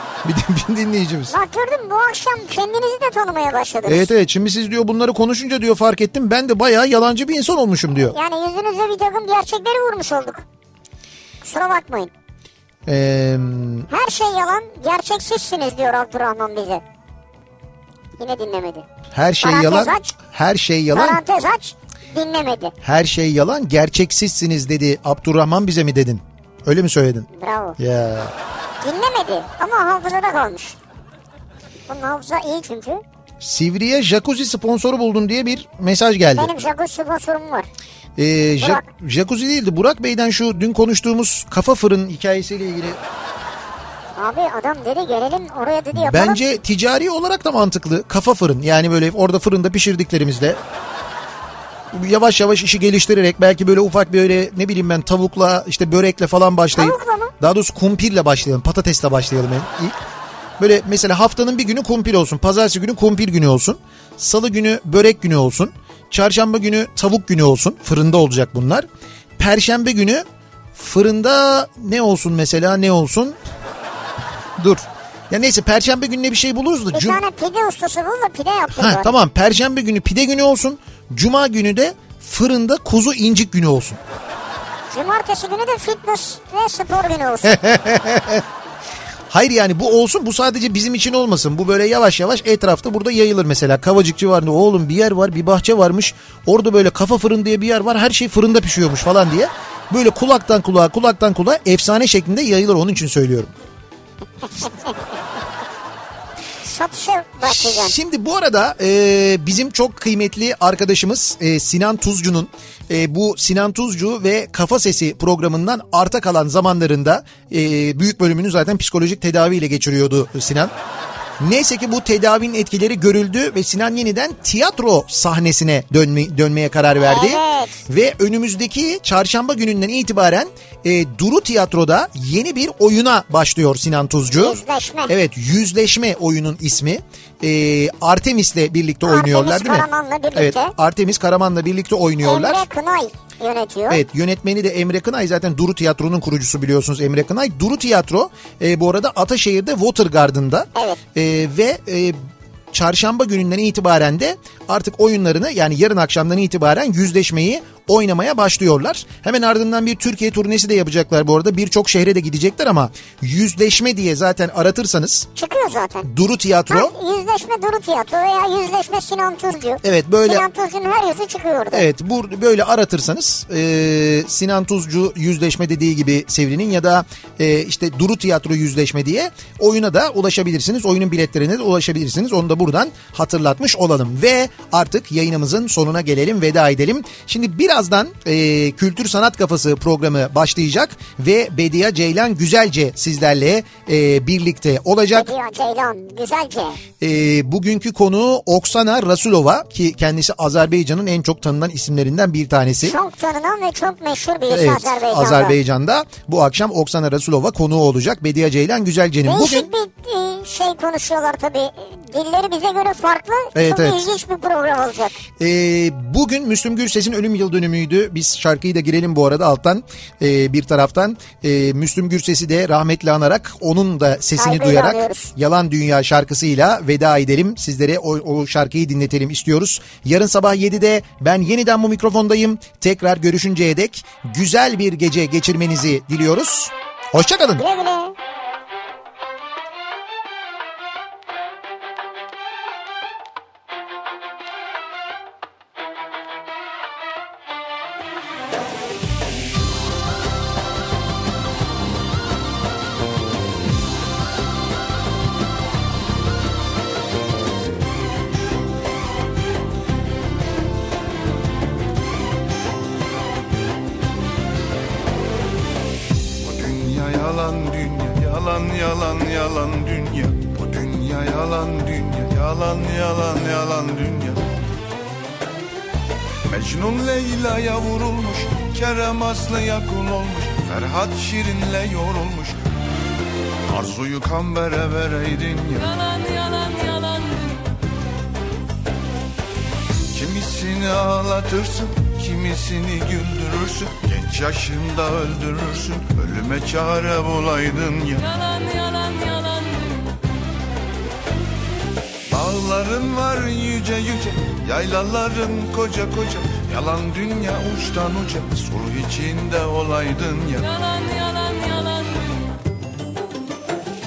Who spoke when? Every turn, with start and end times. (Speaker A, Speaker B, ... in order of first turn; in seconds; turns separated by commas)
Speaker A: 0.2-1.3, Speaker B: 1.3-4.1, Speaker A: 3.9-8.1, Speaker B: 8.1-10.4, Speaker B: 11.4-12.1, Speaker A: 12.9-13.9, Speaker B: 13.9-16.8, Speaker B: 18.2-18.9, Speaker A: 19.1-21.2, Speaker B: 19.4-20.1, Speaker B: 20.9-22.8, Speaker A: 22.8-27.3, Speaker B: 27.3-27.8, Speaker A: 27.8-28.3, Speaker B: 28.8-30.8, Speaker B: 31.9-33.0, Speaker A: 33.4-36.5, Speaker B: 36.4-37.7, Speaker A: 38.2-43.0, Speaker B: 44.2-46.4, Speaker A: 45.9-50.6, Speaker A: 51.9-60.0, Speaker B: 56.8-57.3, Speaker A: 60.6-68.9, Speaker A: 69.4-73.4, Speaker A: 74.6-77.2, Speaker B: 76.9-79.1, Speaker A: 78.7-84.0, Speaker B: 84.9-87.6, Speaker A: 87.4-88.4, Speaker A: 89.3-103.5, Speaker B: 104.4-105.1, Speaker B: 106.6-108.0, Speaker A: 107.4-120.7, Speaker A: 121.4-142.7, Speaker B: 127.0-127.8, Speaker B: 134.3-135.1, Speaker B: 139.0-140.7, Speaker B: 142.2-144.0, Speaker A: 143.9-152.2, Speaker B: 150.8-151.0, Speaker A: 152.7-165.3, Speaker B: 165.4-166.1, Speaker A: 166.1-166.9, Speaker B: 166.7-171.9, Speaker A: 169.8-170.4, Speaker A: 171.7-195.3, Speaker B: 195.1-196.8, Speaker A: 197.0-203.0, Speaker B: 202.8-205.6, Speaker A: 204.5-209.7, Speaker B: 209.2-215.2, Speaker A: 213.5-214.1, Speaker A: 215.4-237.6, Speaker B: 224.4-225.3, Speaker B: 237.6-238.2, Speaker C: 266.4-274.4, Speaker C: 276.5-282.6, Speaker C: 283.7-285.9, Speaker D: 285.8-287.7, Speaker C: 290.1-298.3, Speaker D: 298.2-300.2, Speaker C: 302.3-310.7, Speaker D: 310.6-312.6